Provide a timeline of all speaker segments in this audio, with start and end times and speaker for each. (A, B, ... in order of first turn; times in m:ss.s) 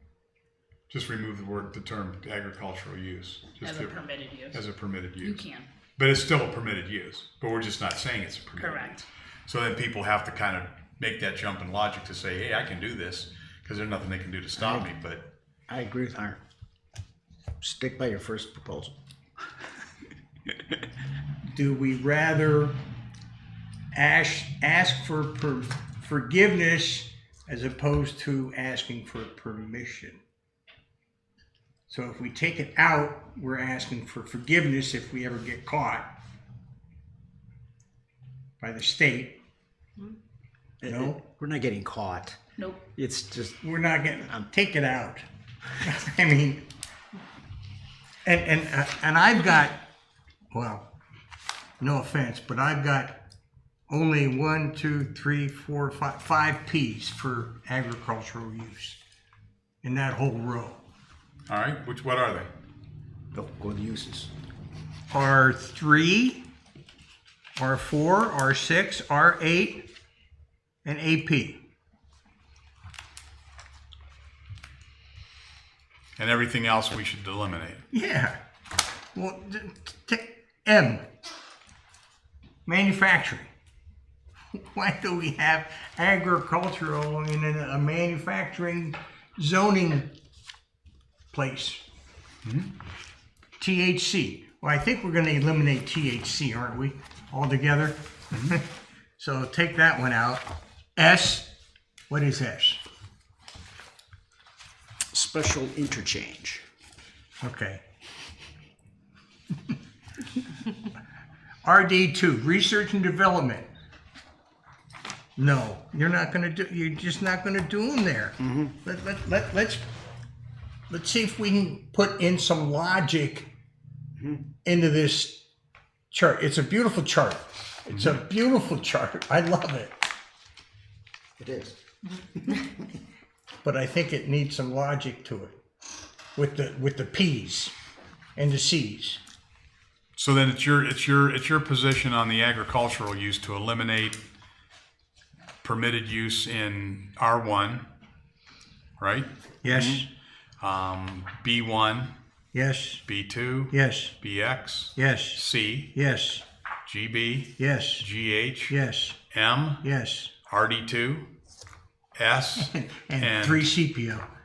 0:00.9-0:05.4 A
0:03.6-0:04.6 B
0:05.2-0:05.7 B
0:06.0-0:09.0 A
0:08.6-0:09.1 B
0:09.5-0:15.3 A
0:14.6-0:14.9 C
0:15.7-0:16.4 C
0:17.6-0:19.0 C
0:21.5-0:22.8 D
0:23.9-0:30.2 D
0:31.9-0:36.2 D
0:38.6-0:39.4 D
0:40.8-0:42.4 C
0:40.8-0:41.2 D
0:42.6-0:42.9 B
0:43.0-0:43.6 C
0:43.6-0:45.2 D
0:45.8-0:46.7 D
0:48.2-0:49.8 D
0:50.5-0:50.9 D
0:51.8-0:53.2 D
0:53.9-0:59.0 D
0:59.8-1:00.8 D
1:01.5-1:02.5 A
1:03.3-1:04.3 C
1:05.1-1:06.5 D
1:07.6-1:09.9 D
1:10.8-1:11.6 D
1:16.2-1:17.8 A
1:17.9-1:18.4 D
1:19.2-1:21.1 D
1:22.7-1:23.5 D
1:24.5-1:30.1 D
1:31.3-1:31.8 D
1:32.4-1:32.7 A
1:33.6-1:41.6 D
1:42.1-1:42.8 D
1:45.1-1:46.6 C
1:47.4-1:47.8 D
1:51.6-1:53.7 D
1:55.4-1:59.8 D
1:58.4-1:58.7 C
2:00.9-2:03.5 D
2:04.2-2:04.4 C
2:04.6-2:05.5 D
2:06.1-2:10.0 D
2:11.4-2:11.8 C
2:13.6-2:15.5 D
2:16.4-2:17.7 D
2:18.4-2:19.2 D
2:20.2-2:24.2 A
2:25.6-2:27.9 A
2:29.0-2:29.3 A
2:29.6-2:30.1 D
2:29.7-2:30.0 C
2:30.6-2:32.1 A
2:32.5-2:33.0 D
2:33.1-2:35.9 A
2:33.7-2:34.2 D
2:35.0-2:36.4 D
2:36.9-2:38.7 A
2:37.6-2:38.1 D
2:38.7-2:39.2 D
2:39.3-2:39.8 A
2:39.8-2:40.4 D
2:40.5-2:41.3 A
2:42.2-2:43.7 A
2:42.6-2:44.3 D